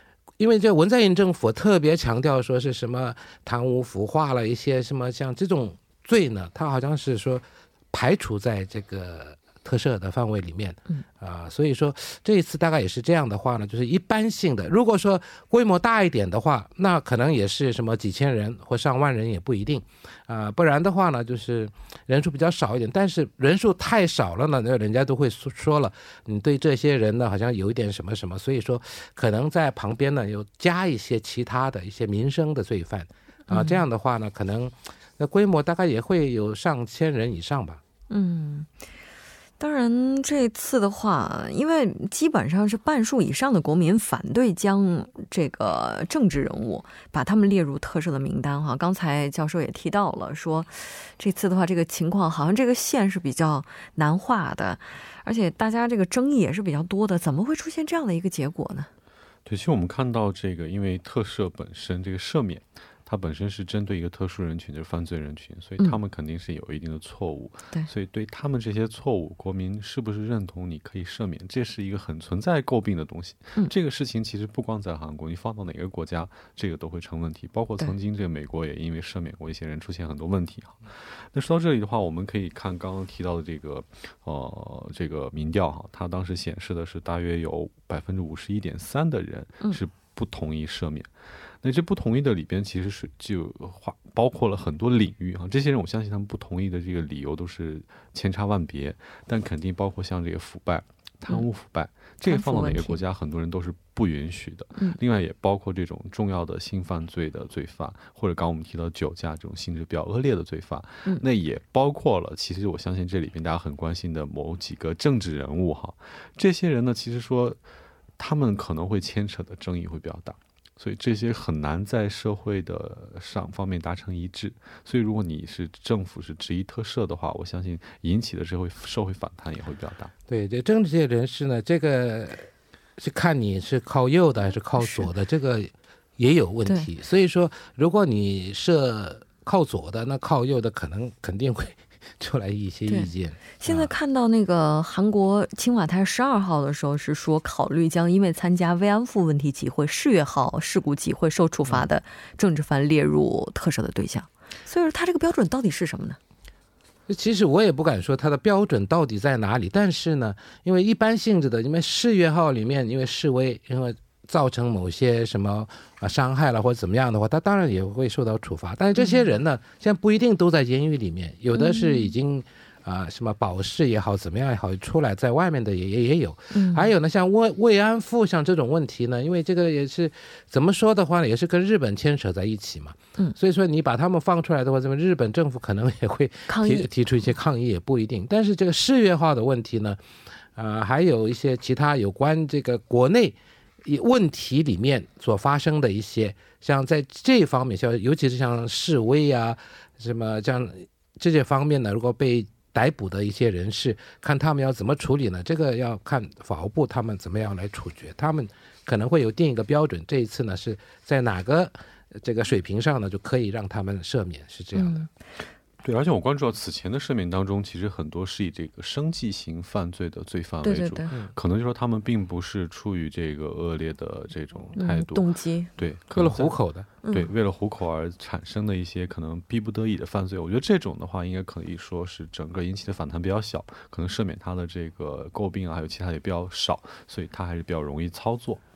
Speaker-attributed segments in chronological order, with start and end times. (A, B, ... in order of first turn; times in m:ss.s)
0:00.4-0:37.8 A
0:33.5-0:33.8 B
0:38.1-0:38.7 B
0:39.6-0:58.9 B
0:59.4-1:31.1 C
1:31.6-1:57.6 C
1:42.3-1:43.0 B
1:58.2-2:10.1 C
2:10.3-2:23.9 A
2:14.8-2:15.1 B
2:23.6-2:36.2 B
2:37.1-3:10.0 A
2:49.0-2:49.2 B
2:51.6-2:52.1 B
2:56.5-2:56.9 B
3:06.5-3:06.9 B
3:10.6-3:35.1 A
3:34.8-3:35.1 B
3:35.8-3:58.6 C
3:40.6-3:41.1 B
3:44.8-3:45.7 B
3:46.2-3:46.9 A
3:47.0-3:47.3 B